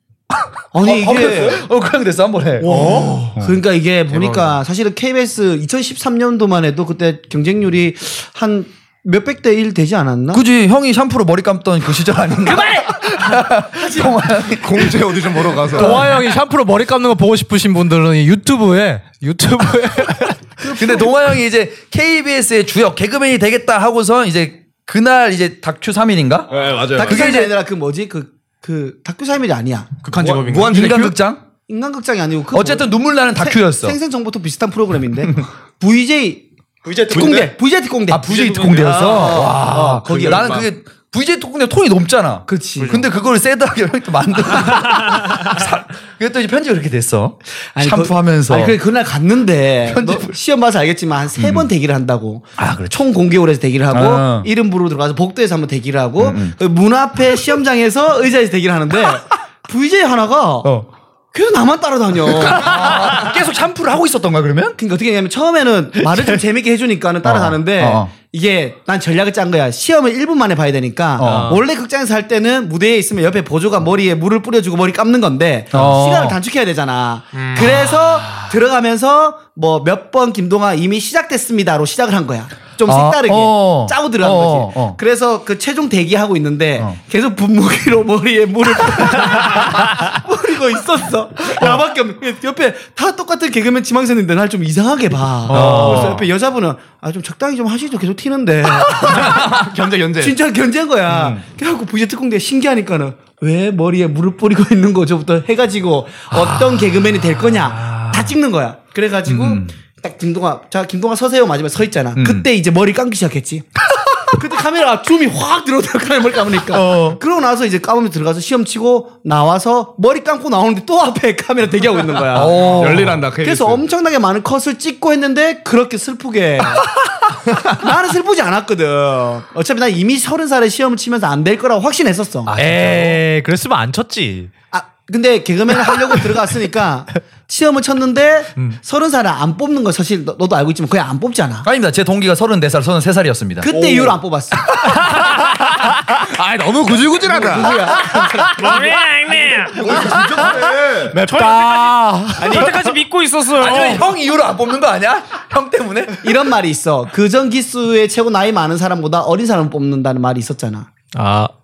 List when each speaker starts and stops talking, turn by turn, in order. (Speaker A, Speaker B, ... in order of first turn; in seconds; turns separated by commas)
Speaker A: 0.3-3.5, Speaker B: 0.7-1.6, Speaker B: 2.6-10.4, Speaker C: 2.6-3.3, Speaker A: 4.1-4.6, Speaker A: 10.3-15.0, Speaker B: 12.5-14.2, Speaker C: 14.5-16.1, Speaker D: 15.7-20.4, Speaker B: 20.6-21.1, Speaker A: 20.8-26.5, Speaker C: 26.5-27.3, Speaker B: 26.9-29.9, Speaker A: 27.0-27.5, Speaker E: 30.0-30.8, Speaker C: 30.1-31.2, Speaker A: 30.6-31.4, Speaker B: 31.7-36.4, Speaker A: 32.5-34.0, Speaker C: 36.9-37.5, Speaker B: 37.1-40.6, Speaker A: 38.1-48.8, Speaker C: 38.3-40.7, Speaker B: 42.5-43.0, Speaker E: 44.9-45.3, Speaker B: 47.7-60.7, Speaker A: 49.9-50.3, Speaker A: 51.4-51.7, Speaker A: 52.6-53.0, Speaker A: 53.9-54.5, Speaker A: 56.2-56.5, Speaker B: 61.3-62.8, Speaker A: 62.3-64.8, Speaker B: 64.8-99.5, Speaker A: 67.2-68.1, Speaker A: 71.2-71.6, Speaker D: 71.2-71.5, Speaker A: 75.7-76.4, Speaker E: 77.3-78.4, Speaker A: 82.9-85.0, Speaker A: 95.5-96.2, Speaker D: 95.5-96.2, Speaker C: 99.1-100.3, Speaker B: 100.2-113.7, Speaker A: 101.1-101.4, Speaker A: 106.3-108.3, Speaker A: 109.3-109.7, Speaker A: 112.2-112.4, Speaker B: 114.2-126.9, Speaker A: 116.7-117.2, Speaker A: 122.3-123.2, Speaker C: 122.6-123.8, Speaker B: 127.6-132.5, Speaker A: 132.4-133.2, Speaker D: 132.6-134.5, Speaker B: 134.7-141.7, Speaker A: 141.6-143.7, Speaker B: 143.6-144.7, Speaker C: 143.7-144.2, Speaker C: 146.1-147.8, Speaker B: 147.2-148.9, Speaker E: 148.5-149.9, Speaker C: 149.7-151.2, Speaker D: 149.9-152.9, Speaker E: 151.2-154.0, Speaker B: 152.4-152.7, Speaker A: 153.6-156.3, Speaker B: 156.2-160.9, Speaker D: 161.1-161.5